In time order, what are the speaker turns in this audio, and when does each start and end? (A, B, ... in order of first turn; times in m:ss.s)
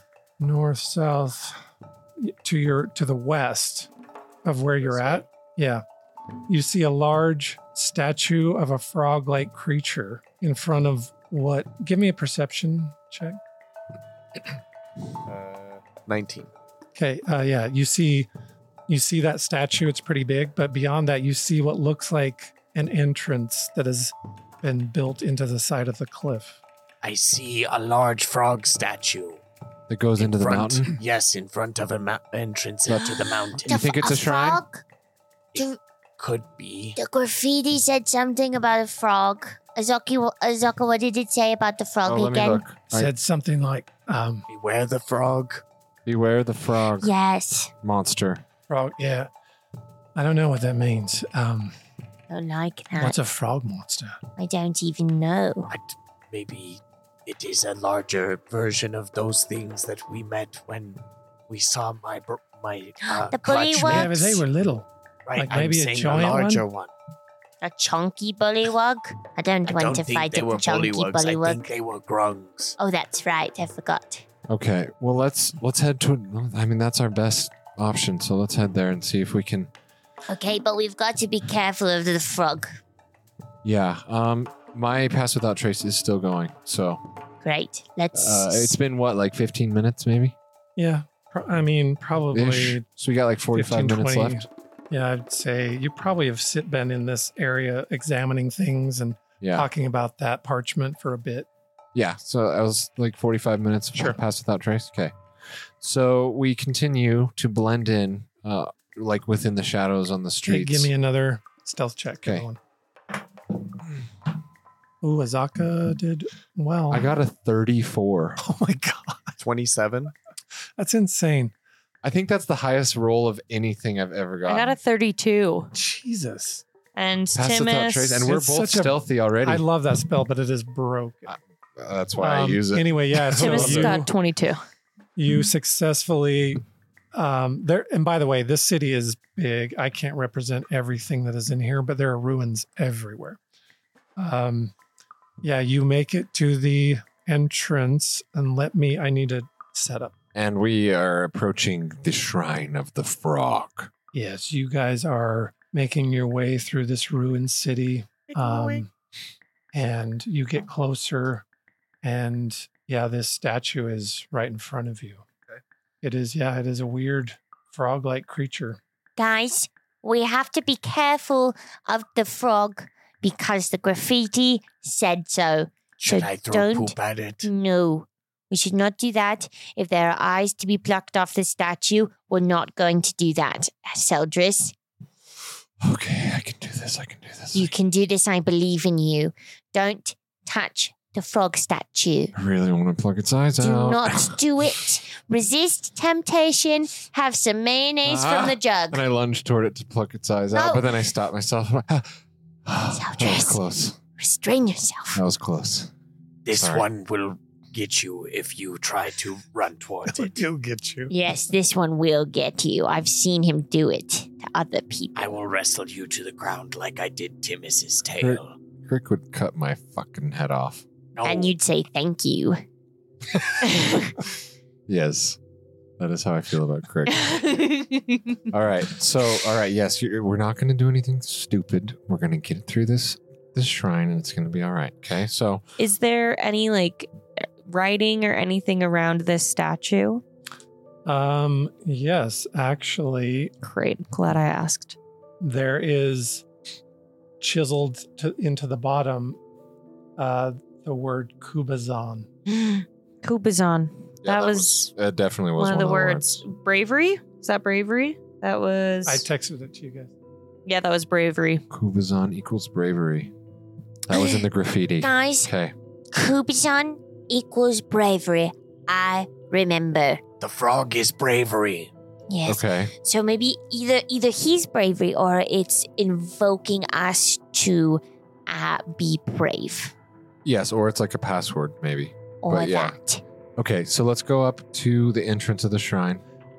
0:00.4-0:01.6 A
0:02.2-0:03.9 A
0:04.4-0:05.8 A
0:04.8-0:05.2 B
0:06.5-0:13.4 A
0:15.2-0:16.5 B
0:16.9-0:18.3 A
0:18.9-0:26.6 A
0:27.0-0:29.4 C
0:29.9-0:31.0 D
0:30.2-0:33.8 C
0:32.9-0:34.6 D
0:33.7-0:34.8 E
0:36.2-0:37.0 C
0:37.0-0:42.6 E
0:42.0-0:43.1 D
0:42.9-0:44.4 A
0:44.5-0:45.6 C
0:46.0-0:47.1 D
0:47.0-0:47.7 E
0:47.8-0:48.4 D
0:48.7-0:49.3 A
0:50.1-0:51.7 A
0:52.3-0:53.2 E
0:53.0-0:54.2 A
0:54.4-0:55.7 E
0:55.7-1:04.4 C
1:03.1-1:04.2 E
1:03.8-1:06.6 A
1:05.2-1:06.9 C
1:07.6-1:11.6 E
1:09.6-1:12.8 C
1:12.8-1:14.2 E
1:14.5-1:19.7 D
1:20.3-1:22.7 E
1:23.6-1:27.0 D
1:27.4-1:28.8 E
1:28.1-1:30.4 D
1:30.8-1:32.8 A
1:32.3-1:34.4 D
1:33.5-1:41.5 A
1:39.4-1:39.7 D
1:41.9-1:50.9 D
1:50.4-1:52.6 A
1:55.0-1:57.1 A
1:56.9-1:58.4 D
1:58.4-1:59.4 A
1:59.4-2:00.1 B
2:00.8-2:01.5 A
2:02.0-2:04.8 D
2:04.4-2:05.7 F
2:05.7-2:06.6 A
2:06.9-2:08.2 F
2:07.3-2:09.6 D
2:08.2-2:11.4 A
2:11.3-2:14.0 D
2:12.2-2:14.1 A
2:13.4-2:14.6 F
2:15.2-2:16.6 A
2:17.1-2:23.4 A
2:24.2-2:24.7 A
2:25.4-2:30.1 A
2:30.3-2:33.9 D
2:34.1-2:38.9 A
2:39.7-2:41.4 A
2:42.0-2:45.2 A
2:46.0-2:48.8 A
2:49.2-3:04.7 E
2:56.0-2:57.5 C
3:05.8-3:07.7 D
3:07.5-3:12.3 E
3:12.3-3:14.8 D
3:13.6-3:19.0 E
3:18.0-3:22.1 D
3:20.5-3:20.9 E
3:22.6-3:24.0 D
3:22.9-3:23.6 E
3:24.2-3:25.2 E
3:25.1-3:25.9 D
3:26.4-3:30.4 C
3:26.5-3:26.8 D
3:30.1-3:31.1 A
3:31.1-3:35.3 E
3:35.1-3:38.5 C
3:38.2-3:40.8 D
3:41.1-3:41.5 C
3:41.2-3:42.6 E
3:43.7-3:44.1 E
3:44.9-3:45.4 D
3:46.0-3:47.5 D
3:47.1-3:48.4 F
3:48.5-3:55.6 D
3:55.8-3:57.1 F
3:57.6-4:00.2 F
4:01.0-4:03.5 A
4:03.6-4:05.0 F
4:05.4-4:06.4 A
4:07.4-4:09.4 A
4:10.2-4:12.3 A
4:12.5-4:14.9 F
4:14.2-4:16.4 D
4:15.6-4:19.2 F
4:19.0-4:20.1 A
4:20.6-4:21.6 F
4:21.7-4:23.3 D
4:24.1-4:25.7 D
4:24.1-4:24.4 E
4:25.0-4:25.5 E
4:26.1-4:30.2 E
4:30.4-4:31.9 C
4:32.3-4:39.9 E
4:32.4-4:32.9 D
4:40.4-4:43.0 D
4:42.4-4:43.2 E
4:43.6-4:46.2 D